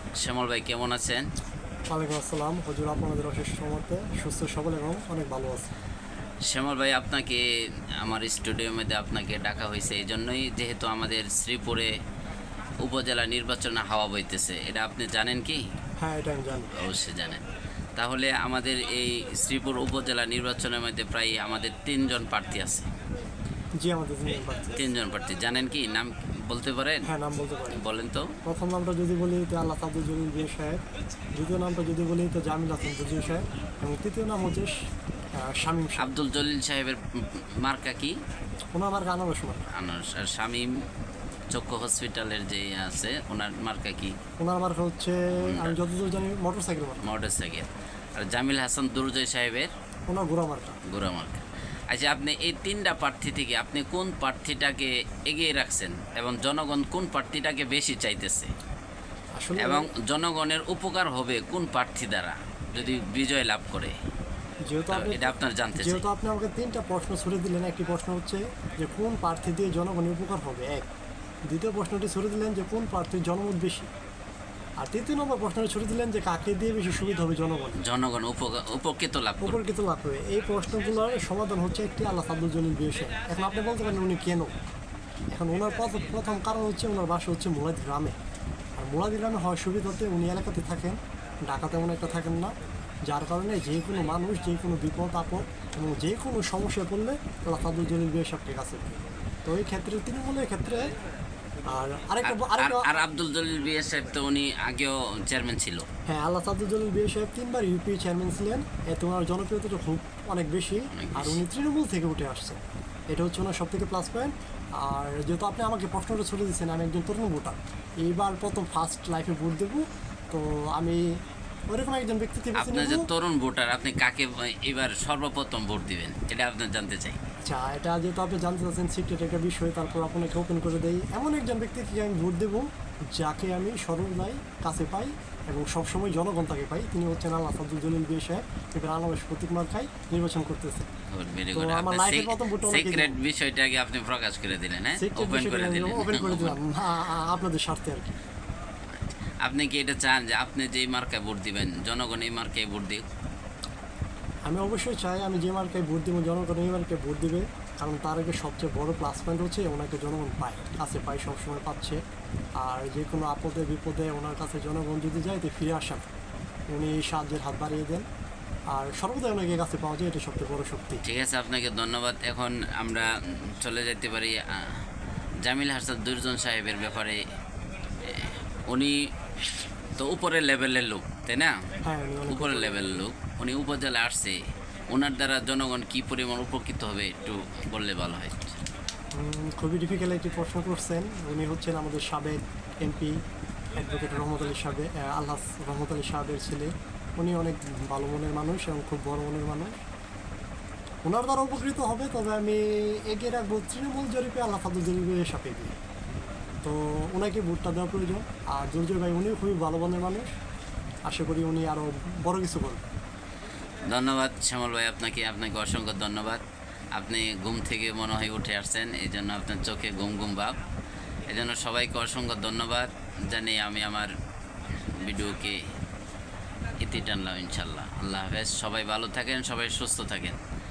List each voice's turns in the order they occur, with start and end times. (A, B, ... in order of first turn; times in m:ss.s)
0:00.2-0:01.2 A
0:01.9-0:05.7 B
0:06.5-0:07.4 A
0:08.0-0:11.9 A
0:12.8-0:15.6 A
0:16.0-0:16.7 B
0:16.7-0:17.4 A
0:18.0-0:22.9 A
0:23.8-0:24.8 B
0:24.7-0:27.1 A
0:27.0-0:27.8 B
0:27.7-0:28.4 A
0:28.4-0:30.8 B
0:31.3-0:36.2 B
0:36.0-0:38.2 A
0:38.7-0:39.7 B
0:39.7-0:40.7 A
0:41.5-0:44.1 A
0:44.4-0:47.0 B
0:45.4-0:45.8 A
0:47.0-0:49.7 A
0:50.1-0:50.8 B
0:50.9-0:58.5 A
0:59.4-0:59.9 B
0:59.6-1:04.0 A
1:04.7-1:10.9 B
1:04.9-1:06.0 A
1:11.5-1:13.9 B
1:14.8-1:17.8 B
1:17.8-1:19.6 A
1:19.4-1:24.5 B
1:25.3-1:28.2 B
1:28.8-1:32.6 B
1:33.1-1:38.9 B
1:39.4-1:40.9 B
1:41.7-1:42.9 B
1:42.2-1:45.8 A
1:46.1-2:01.2 B
1:50.9-1:51.4 A
2:01.7-2:03.1 B
2:02.6-2:07.2 A
2:07.4-2:20.9 B
2:21.1-2:26.6 A
2:21.5-2:23.2 B
2:25.0-2:28.2 B
2:29.4-2:33.0 A
2:34.5-2:42.0 B
2:42.6-2:46.1 B
2:46.7-2:48.1 B
2:48.7-2:51.0 B
2:51.0-2:54.7 A
2:55.4-2:57.2 A
2:58.1-2:59.1 A
3:00.0-3:01.6 A
3:01.8-3:03.0 B
3:02.3-3:04.4 A
3:04.9-3:08.6 A
3:09.2-3:13.2 B
3:13.8-3:19.8 B
3:21.0-3:25.8 B
3:26.6-3:30.3 B
3:31.1-3:32.8 B
3:33.9-3:36.4 A
3:37.0-3:40.6 A
3:41.3-3:44.1 A
3:45.0-3:45.6 A
3:46.8-3:50.4 A